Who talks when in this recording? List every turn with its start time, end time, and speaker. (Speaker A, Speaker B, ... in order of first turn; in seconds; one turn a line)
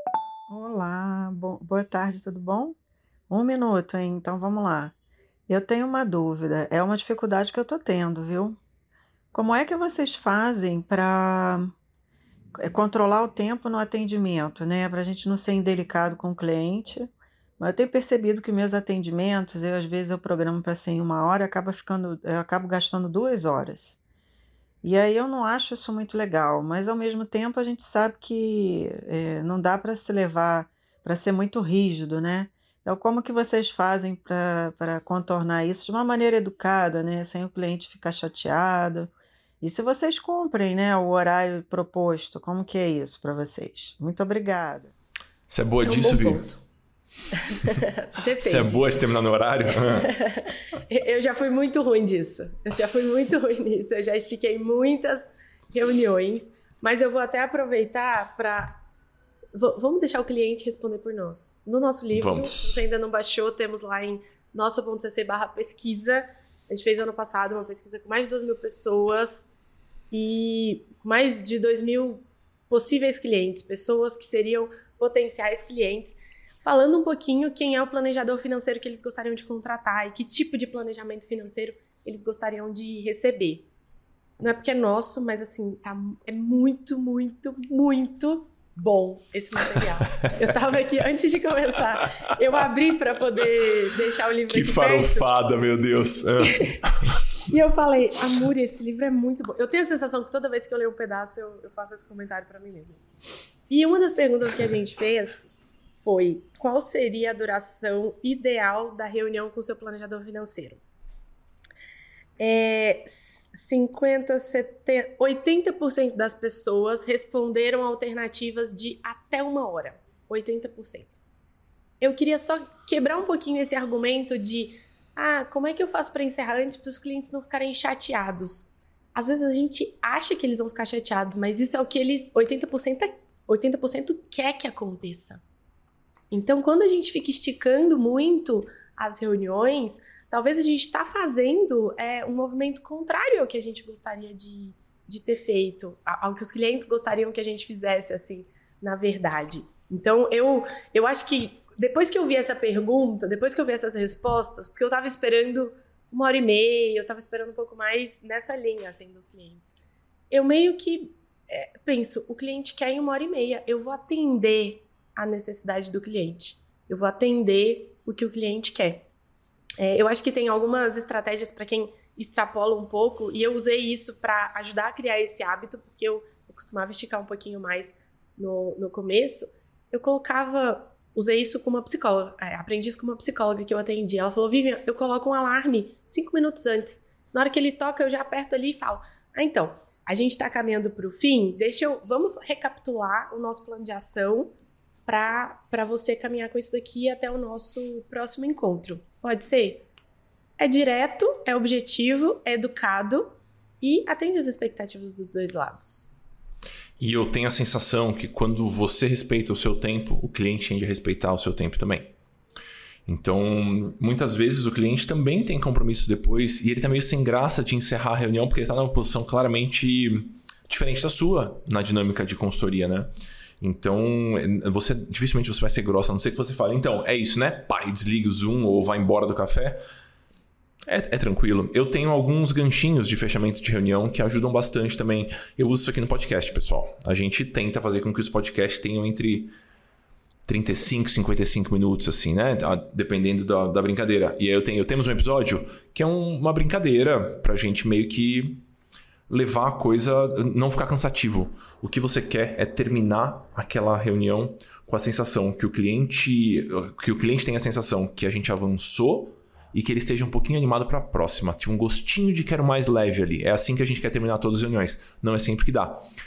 Speaker A: 0.5-2.8
Speaker A: 3.3-4.9
Speaker A: 5.5-8.6
Speaker A: 9.3-11.7
Speaker A: 12.6-24.0
Speaker A: 24.8-39.1
Speaker A: 39.6-44.9
Speaker B: 45.5-46.5
Speaker C: 45.9-46.6
Speaker C: 47.4-48.9
Speaker B: 48.4-50.1
Speaker C: 49.9-58.8
Speaker C: 59.5-69.5
Speaker B: 62.1-62.8
Speaker C: 70.1-83.7
Speaker C: 84.4-95.3
Speaker B: 94.5-97.1
Speaker C: 96.4-96.8
Speaker C: 97.5-103.0
Speaker C: 103.7-105.5
Speaker C: 106.0-110.8
Speaker C: 112.4-121.2
Speaker C: 122.0-135.4
Speaker C: 136.3-159.7
Speaker C: 160.3-169.1
Speaker C: 169.8-194.5
Speaker C: 195.1-199.9
Speaker C: 200.6-206.1
Speaker B: 207.0-212.1
Speaker B: 213.1-229.8
Speaker B: 230.9-239.5
Speaker B: 240.5-248.6
Speaker B: 249.3-266.0